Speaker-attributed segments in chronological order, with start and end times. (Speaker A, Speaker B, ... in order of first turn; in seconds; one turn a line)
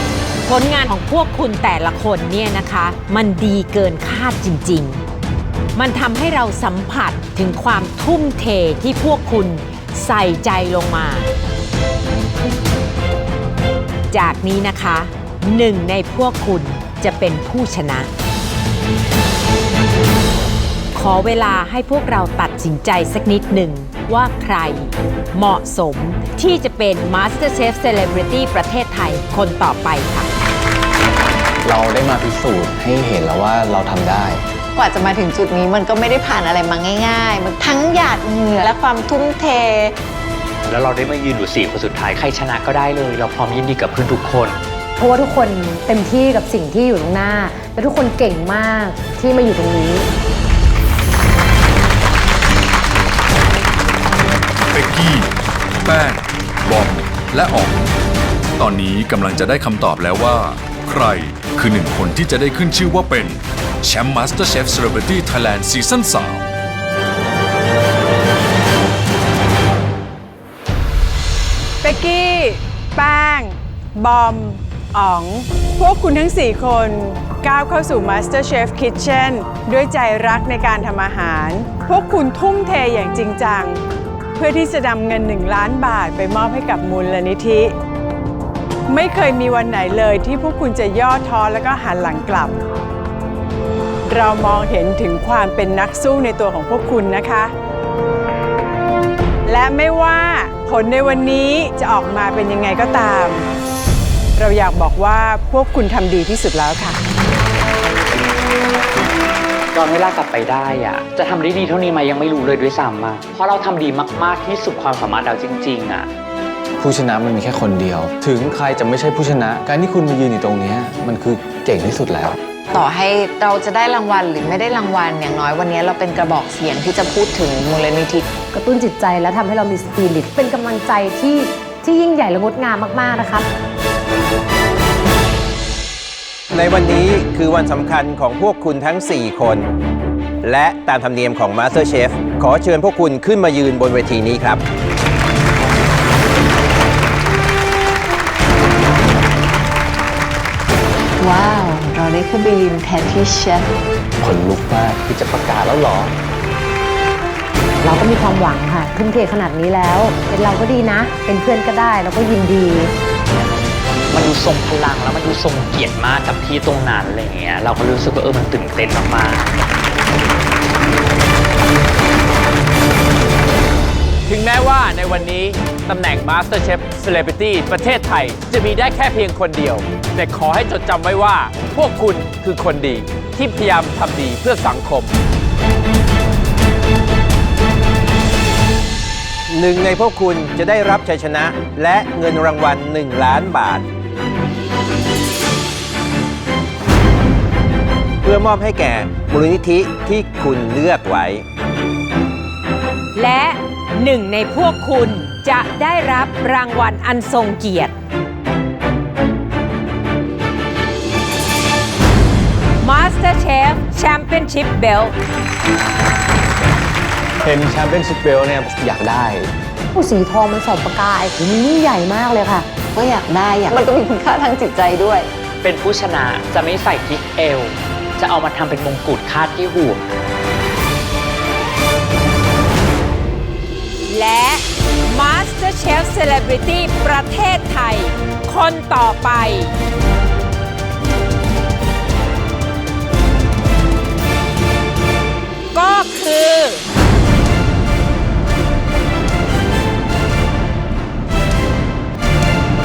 Speaker A: 0.5-5.0
Speaker A: 5.7-11.2
Speaker A: 14.1-18.1
Speaker A: 20.9-30.3
Speaker B: 31.6-34.4
Speaker C: 34.7-40.0
Speaker D: 40.7-44.6
Speaker E: 45.0-50.1
Speaker F: 54.7-55.3
Speaker F: 55.8-57.8
Speaker F: 58.6-66.4
Speaker G: 71.8-83.8
Speaker G: 84.4-87.7
Speaker G: 88.9-92.6
Speaker G: 94.0-97.5
Speaker G: 99.5-103.5
Speaker G: 104.4-107.0
Speaker D: 109.7-116.1
Speaker B: 116.8-122.4
Speaker C: 122.7-128.2
Speaker E: 128.5-133.5
Speaker H: 136.5-139.7
Speaker H: 140.4-144.6
Speaker C: 151.2-153.7
Speaker B: 154.2-156.1
Speaker E: 157.8-162.9
Speaker D: 164.1-169.6
Speaker I: 174.2-185.1
Speaker H: 189.5-193.8
Speaker H: 198.2-201.4
Speaker A: 203.1-207.9
Speaker A: 212.8-215.1
Speaker B: 217.4-219.5
Speaker E: 219.9-222.7
Speaker C: 222.9-225.3
Speaker D: 225.6-230.0
Speaker A: 234.1-239.7
Speaker A: 245.7-246.8